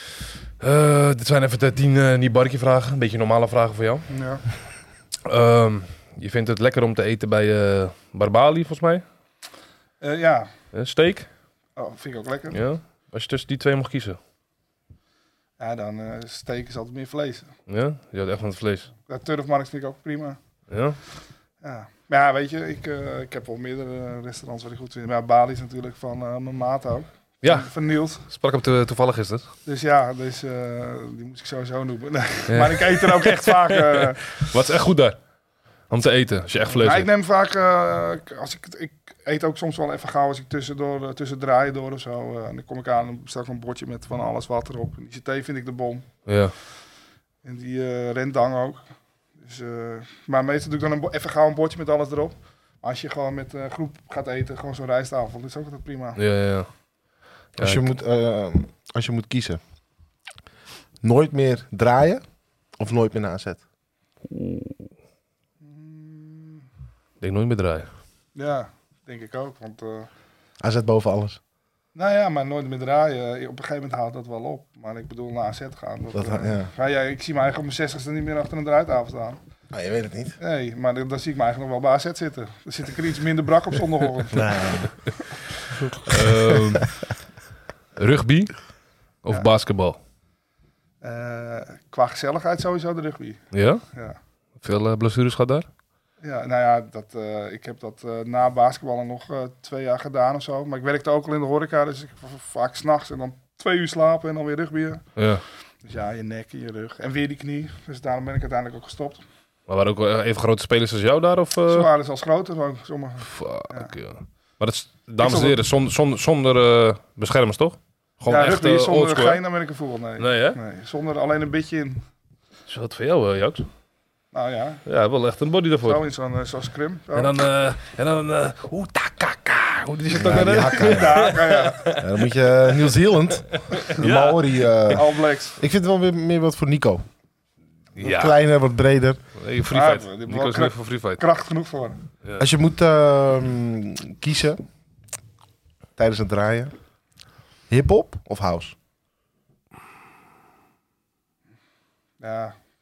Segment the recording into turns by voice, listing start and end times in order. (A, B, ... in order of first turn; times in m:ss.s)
0:00.6-0:04.1 A
0:04.1-0:04.4 B
0:05.3-0:09.0 A
0:10.0-0:10.5 B
0:10.7-0:11.3 A
0:11.8-0:12.6 B
0:12.5-0:14.2 A
0:15.6-0:17.5 B
0:17.7-0:18.9 A
0:19.1-0:20.4 B
0:20.7-0:21.0 A
0:21.6-0:28.2 B
0:27.4-0:27.7 A
0:28.2-0:29.5 A
0:29.7-0:34.4 B
0:32.5-0:35.2 A
0:35.9-0:37.1 A
0:36.7-0:46.1 B
0:46.3-0:46.5 A
0:47.4-0:48.8 B
0:49.4-0:56.2 B
0:56.2-0:56.7 A
0:57.6-0:57.8 A
0:57.6-0:59.6 C
1:01.0-1:02.2 C
1:02.8-1:03.6 C
1:04.3-1:04.9 A
1:05.6-1:06.6 B
1:07.2-1:07.9 A
1:08.4-1:10.1 B
1:10.6-1:11.4 C
1:12.0-1:19.4 B
1:16.1-1:16.7 C
1:19.7-1:20.4 C
1:20.4-1:24.6 B
1:24.3-1:25.0 C
1:26.1-1:26.9 A
1:26.1-1:26.8 C
1:28.0-1:28.5 A
1:29.2-1:30.0 A
1:31.0-1:34.2 B
1:33.5-1:33.8 A
1:34.6-1:35.7 A
1:36.2-1:45.0 B
1:45.2-1:45.4 A
1:45.8-1:49.2 B
1:49.7-1:51.9 A
1:51.7-1:53.9 B
1:53.3-1:59.4 A
1:55.2-1:55.6 B
1:58.3-2:02.0 B
2:00.2-2:00.6 A
2:02.7-2:03.7 A
2:04.3-2:04.8 B
2:04.9-2:06.0 A
2:05.8-2:07.3 B
2:07.1-2:12.2 A
2:10.1-2:11.3 C
2:10.2-2:11.9 B
2:12.0-2:17.0 C
2:13.7-2:15.0 A
2:14.9-2:15.6 B
2:18.0-2:18.4 A
2:18.0-2:19.2 C
2:19.4-2:21.2 A
2:19.7-2:22.0 B
2:22.4-2:24.6 C
2:26.0-2:26.7 C
2:27.7-2:28.8 C
2:32.2-2:32.6 B